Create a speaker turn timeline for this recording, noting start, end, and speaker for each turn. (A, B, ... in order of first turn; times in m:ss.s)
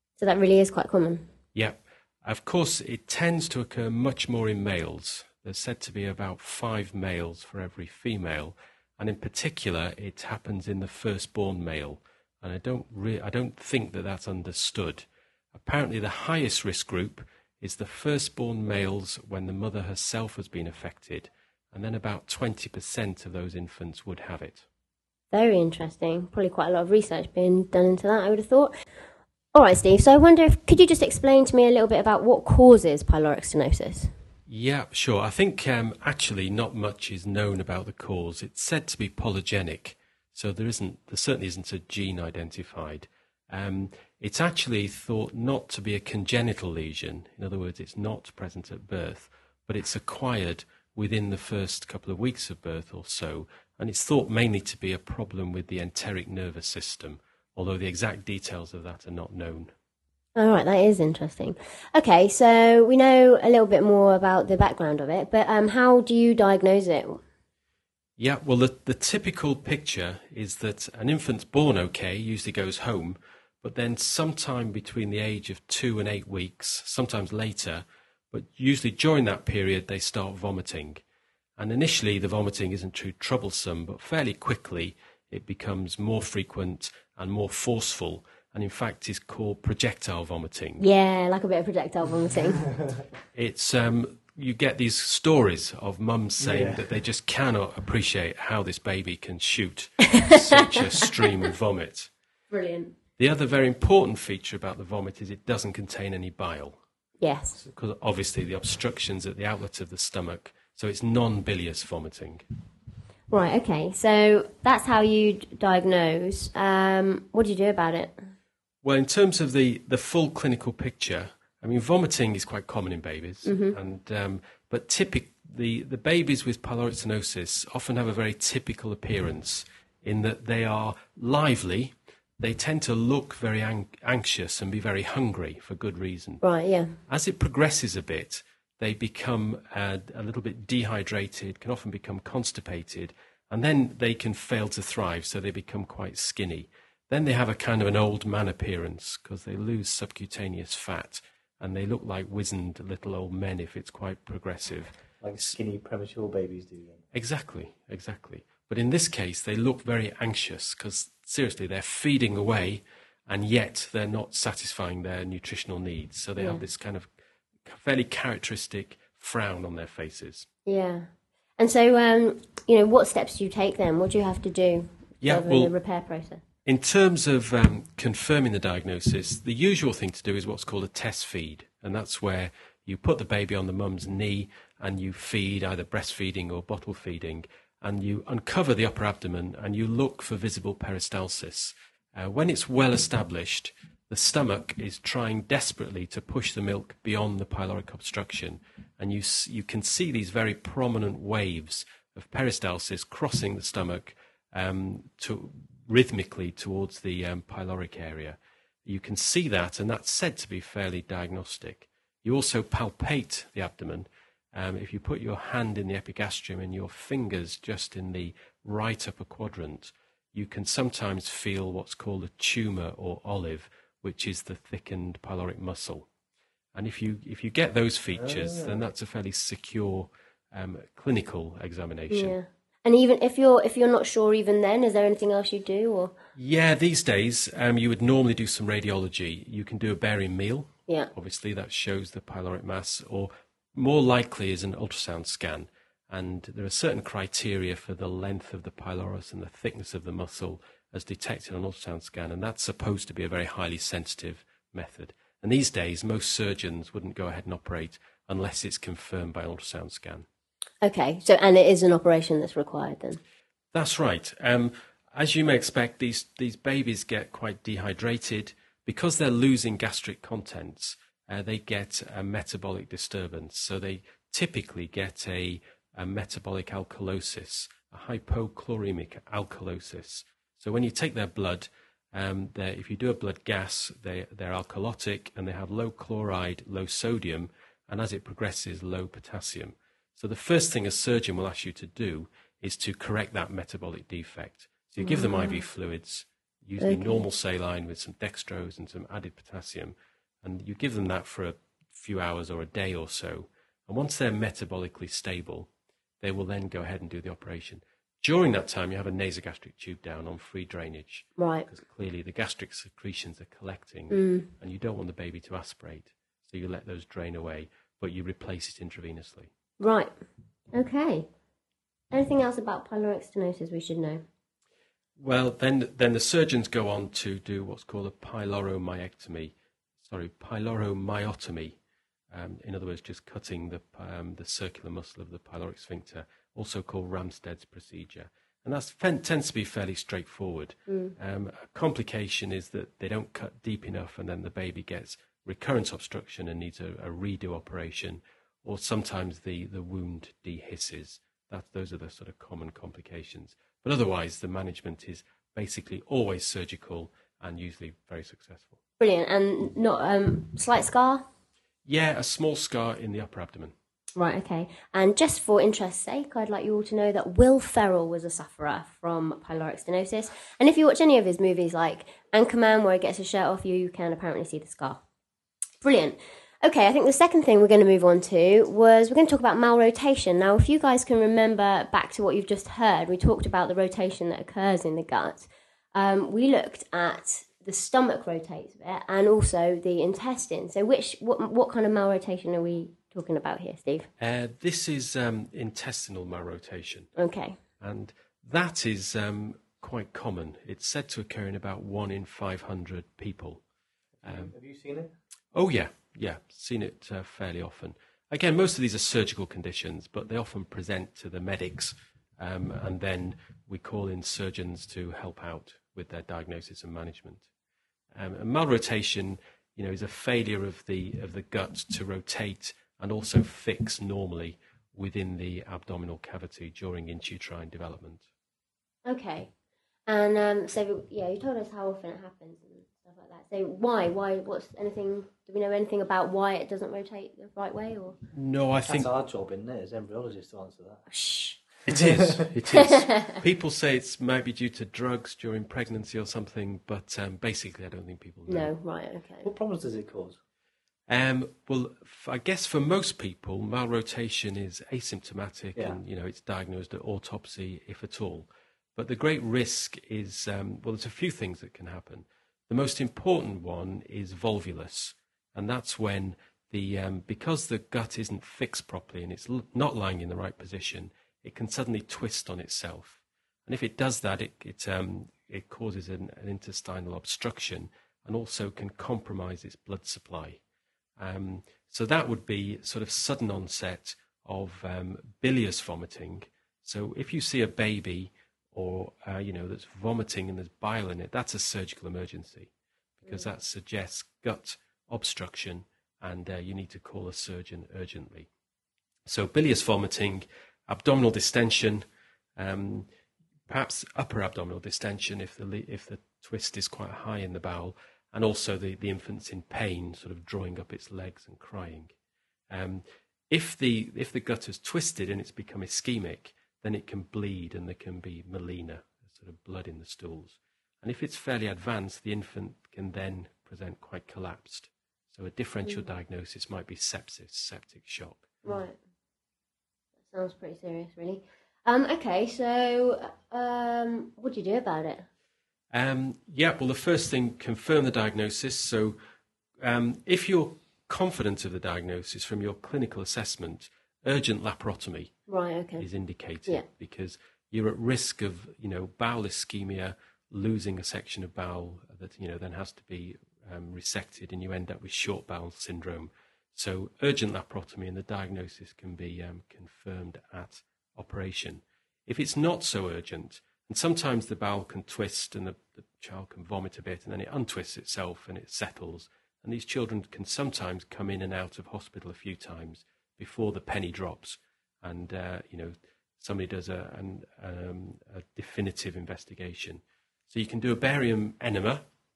0:00.2-0:01.3 A
0:01.5-0:24.6 B
0:25.3-0:28.7 A
0:29.5-0:34.1 A
0:34.5-0:59.7 B
1:00.4-1:07.2 A
1:08.2-1:21.0 B
1:21.6-1:30.8 B
1:30.8-1:32.6 A
1:32.7-1:32.9 C
1:33.3-1:42.1 B
1:36.4-1:36.9 C
1:40.1-1:41.0 A
1:42.5-1:42.9 A
1:43.2-1:46.8 B
1:47.2-1:47.6 A
1:47.6-1:52.4 B
1:53.3-1:58.3 A
1:58.8-2:16.4 B
2:03.4-2:03.8 A
2:16.4-2:17.0 A
2:17.1-2:35.5 B
2:35.2-2:37.0 C
2:37.1-2:47.1 B
2:46.4-2:46.6 A
2:47.6-2:50.5 B
2:50.6-2:56.4 A
2:55.2-2:55.7 B
2:56.6-3:46.1 B
3:46.7-3:52.3 B
3:48.2-3:48.8 C
3:52.1-3:56.1 A
3:56.4-4:20.2 B
4:20.8-4:23.2 A
4:23.7-5:05.7 B
4:55.0-4:55.6 A
4:56.8-4:57.2 A
5:06.2-5:19.5 B
5:11.4-5:11.6 A
5:14.1-5:14.5 A
5:19.8-5:20.2 A
5:20.7-5:21.3 A
5:22.1-5:24.2 A
5:25.2-5:31.8 B
5:32.3-5:58.8 B
5:40.9-5:41.1 A
5:59.0-6:01.3 A
6:01.8-6:03.7 B
6:04.2-6:15.0 A
6:15.8-6:34.1 A
6:34.2-6:37.1 B
6:37.2-6:37.6 A
6:37.8-6:43.6 B
6:44.2-6:45.1 C
6:44.2-6:44.5 B
6:45.5-6:57.5 B
6:58.1-7:08.2 B
7:09.0-7:09.5 A
7:10.1-7:18.1 A
7:18.3-7:19.1 B
7:18.8-7:22.4 C
7:21.1-7:21.6 A
7:21.9-7:28.7 B
7:22.7-7:23.4 A
7:28.5-7:29.5 A
7:29.4-7:30.4 C
7:31.1-8:00.6 B
8:01.2-8:12.7 B
8:13.2-8:18.5 B
8:13.2-8:13.5 A
8:19.2-8:22.0 B
8:22.6-8:23.1 B
8:23.7-8:32.1 B
8:32.7-8:48.6 B
8:45.8-8:46.1 A
8:48.6-8:49.0 A
8:50.3-8:55.3 A
8:55.9-8:59.2 B
8:59.8-9:05.3 B
9:05.5-9:06.0 A
9:06.0-9:42.0 B